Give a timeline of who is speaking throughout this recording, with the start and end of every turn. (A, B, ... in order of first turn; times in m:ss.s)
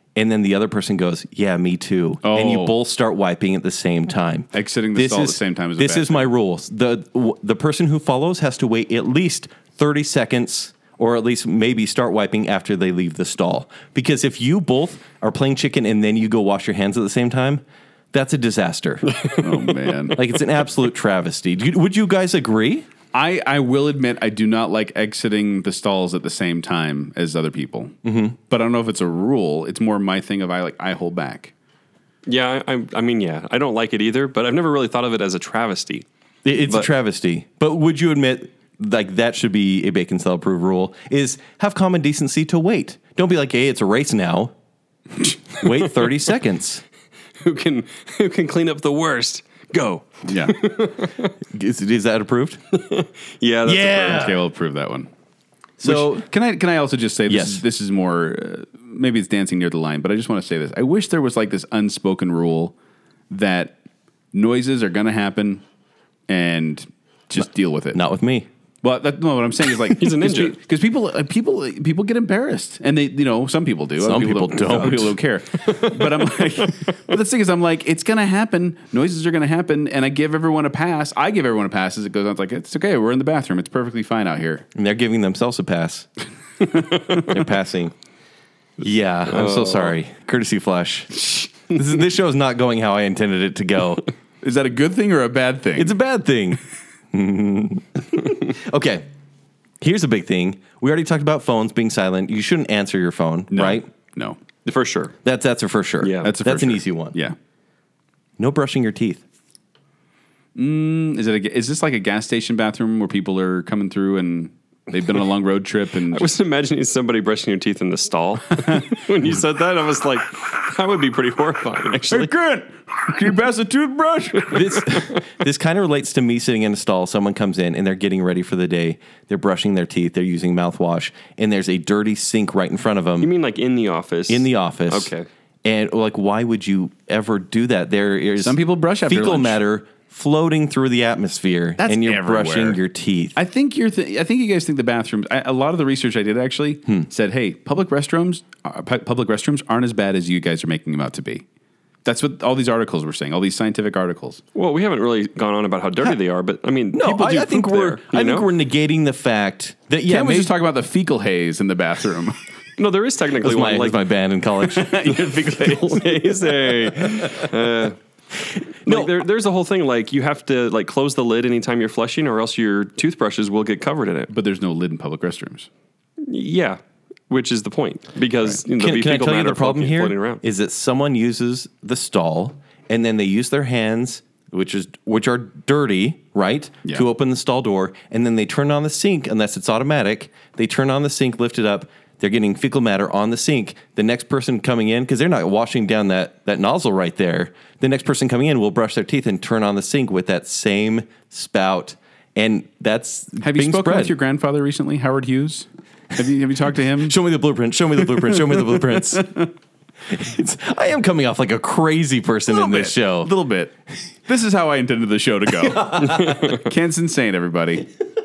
0:00.2-0:19.1 A
0:02.2-0:02.8 B
0:04.5-0:06.3 B
0:19.4-0:20.2 B
0:20.2-0:22.8 A
0:23.1-0:27.9 B
0:28.0-0:28.4 A
0:28.5-0:31.5 B
0:32.2-0:36.0 C
0:36.4-0:44.5 A
0:45.6-0:46.8 A
0:47.4-0:51.3 C
0:50.3-0:50.6 B
0:51.5-0:52.6 A
0:52.7-0:54.3 C
0:53.6-0:54.4 A
0:54.0-0:55.1 B
0:55.8-0:56.2 A
0:55.8-1:02.7 B
0:57.3-0:57.6 A
1:03.3-1:03.8 B
1:04.3-1:05.6 B
1:06.3-1:08.0 B
1:07.9-1:08.5 A
1:08.8-1:24.6 B
1:09.9-1:10.6 C
1:14.0-1:15.2 A
1:15.6-1:15.9 C
1:24.7-1:26.1 A
1:27.1-1:27.9 A
1:28.8-1:34.0 A
1:29.3-1:29.9 C
1:34.4-1:35.9 B
1:35.8-1:36.6 A
1:37.1-1:39.0 A
1:39.8-1:43.9 A
1:43.5-1:44.4 B
1:44.6-1:45.1 C
1:45.2-1:47.1 A
1:46.0-1:46.3 C
1:46.2-1:47.4 B
1:48.4-1:49.2 A
1:50.5-1:56.3 B
1:56.1-2:02.3 C
2:02.0-2:04.9 B
2:04.5-2:13.3 A
2:13.2-2:15.3 C
2:14.3-2:15.1 A
2:15.6-2:23.4 A
2:18.4-2:19.6 B
2:21.8-2:22.8 B
2:23.4-2:31.4 B
2:32.0-2:34.4 B
2:34.5-2:38.5 C
2:36.9-2:40.5 A
2:40.1-2:42.4 B
2:42.8-2:44.0 C
2:43.4-2:45.1 A
2:44.6-2:46.4 B
2:45.0-2:48.0 C
2:48.8-2:49.1 A
2:48.8-2:54.3 C
2:54.3-2:55.7 B
2:56.2-3:00.4 C
2:58.7-3:24.1 A
3:23.4-3:27.2 B
3:27.0-3:29.3 A
3:28.1-3:29.4 B
3:30.1-3:33.3 A
3:32.5-3:33.7 B
3:34.2-3:37.9 B
3:35.6-3:36.6 A
3:36.0-3:36.6 C